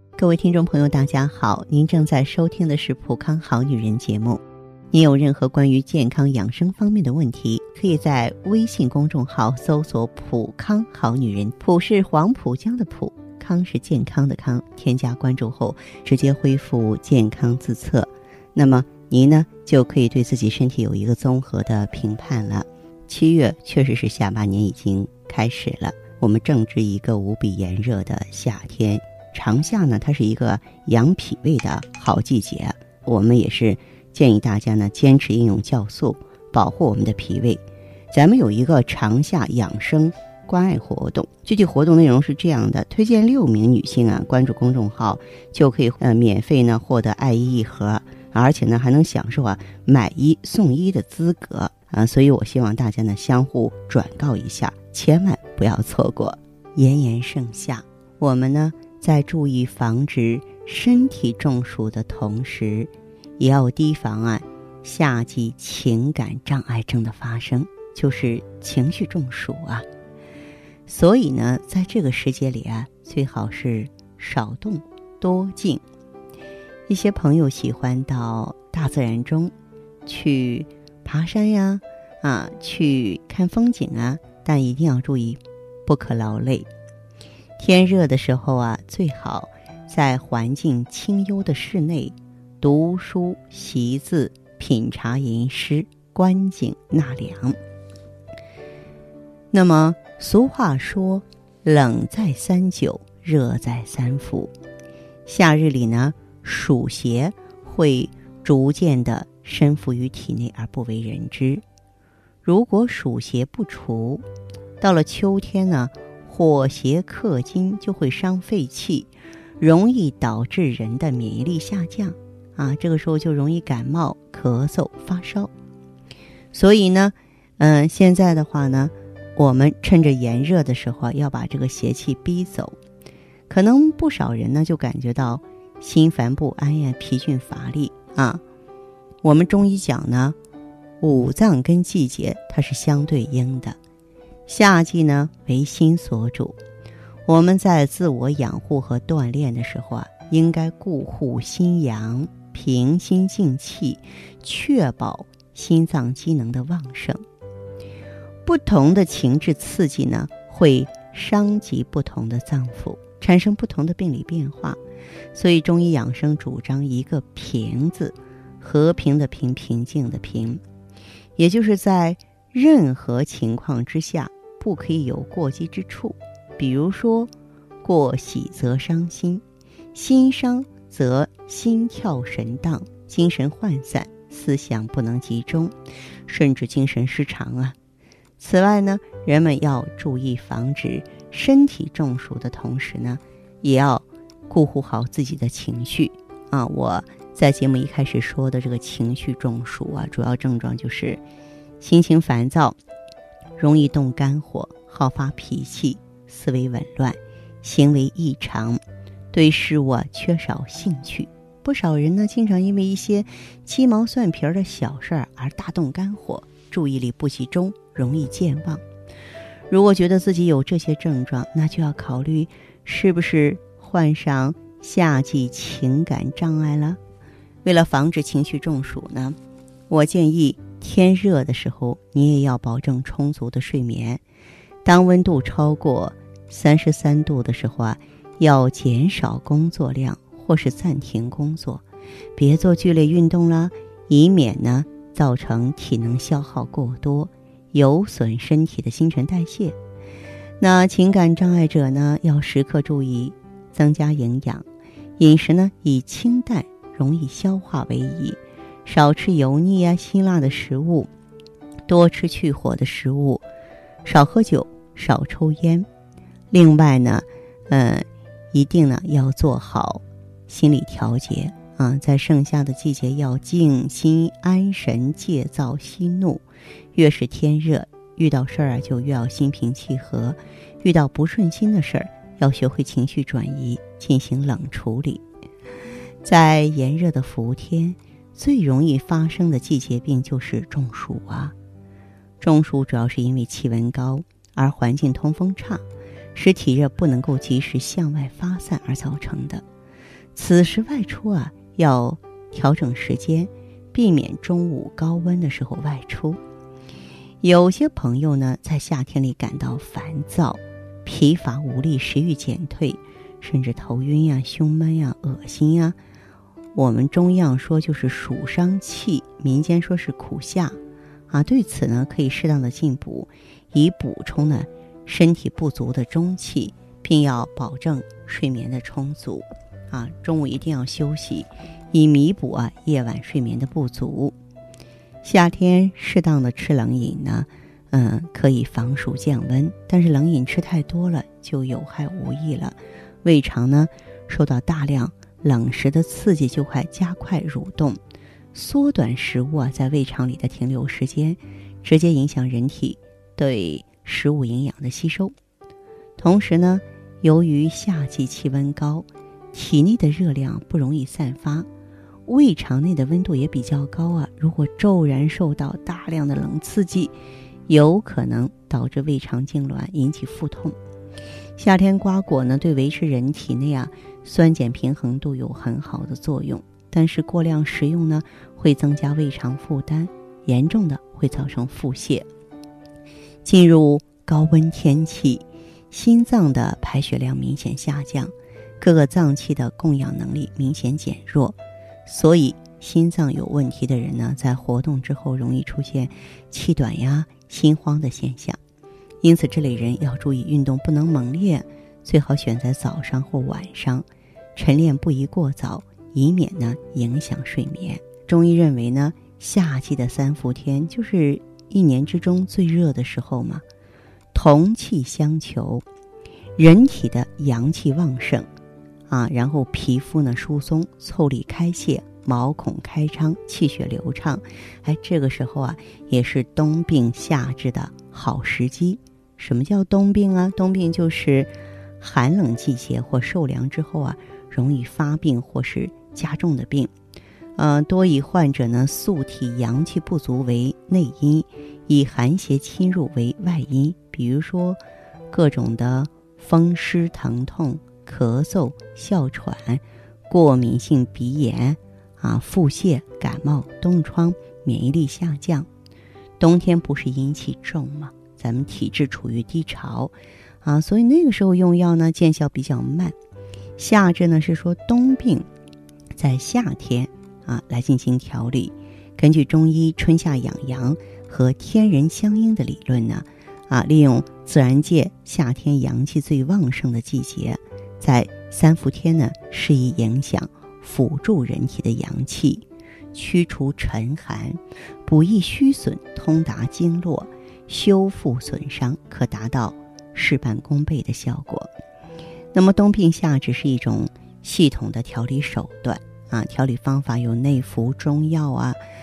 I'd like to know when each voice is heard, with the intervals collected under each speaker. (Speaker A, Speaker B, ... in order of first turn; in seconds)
Speaker A: 0.2-69.8, 70.9-75.8, 76.9-79.5, 80.1-86.7, 87.6-97.6, 99.5-104.5, 105.3-111.6, 112.4-114.2, 114.8-125.5, 126.5-132.8, 133.5-138.4, 139.2-140.4, 141.0-143.8, 144.5-146.6, 147.3-157.2, 158.4-164.8, 165.3-170.6, 171.4-177.3, 177.8-179.4, 179.9-185.7, 186.3-187.8, 188.4-201.2, 201.8-202.8, 203.6-208.8, 209.3-218.8, 219.7-227.0, 227.6-229.4, 229.9-234.2, 234.8-241.8, 242.4-249.8, 250.6-254.7, 255.2-261.1, 261.9-263.4, 264.1-265.9, 266.5-276.4, 276.9-285.2, 286.2-291.5, 292.4-295.8, 296.4-299.6, 300.4-306.4, 307.4-316.0, 316.8-320.8, 321.3-334.3, 335.2-348.0, 348.5-355.3, 356.2-361.7, 362.3-367.1, 367.7-370.8, 371.6-382.3, 383.4-398.6, 399.2-413.6, 414.3-415.9, 416.6-418.5, 419.1-436.9, 437.6-444.8, 445.3-455.7, 456.4-463.1, 463.8-465.5, 466.1-491.7, 492.5-498.8